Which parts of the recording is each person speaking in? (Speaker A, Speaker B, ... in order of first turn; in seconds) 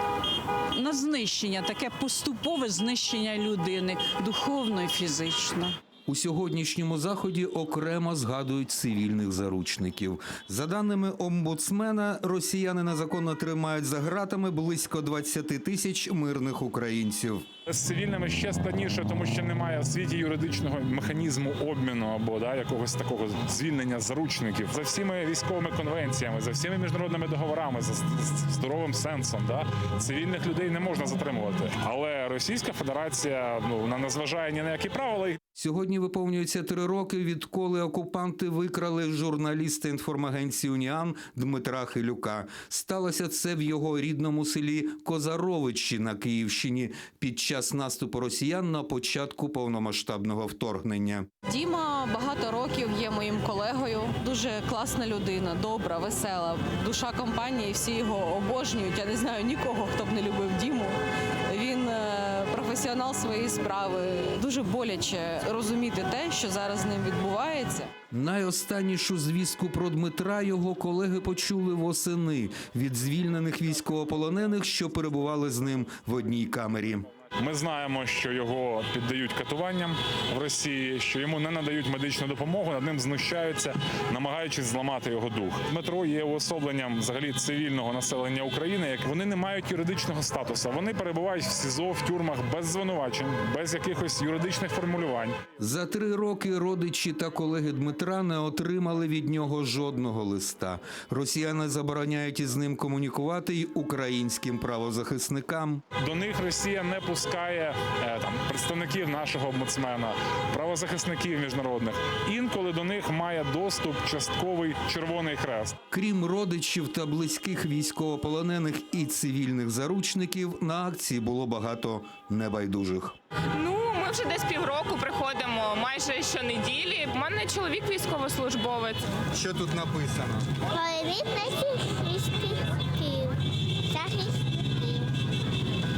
Speaker A: 0.7-5.8
Speaker B: 6.1-17.5, 35.5-51.3, 68.1-77.1, 95.6-105.8, 115.9-123.2, 129.3-130.5
Speaker C: 17.7-35.4, 77.4-95.4, 106.0-115.8
Speaker D: 51.5-61.0, 61.5-67.9
Speaker E: 123.6-129.0
Speaker F: 130.7-135.1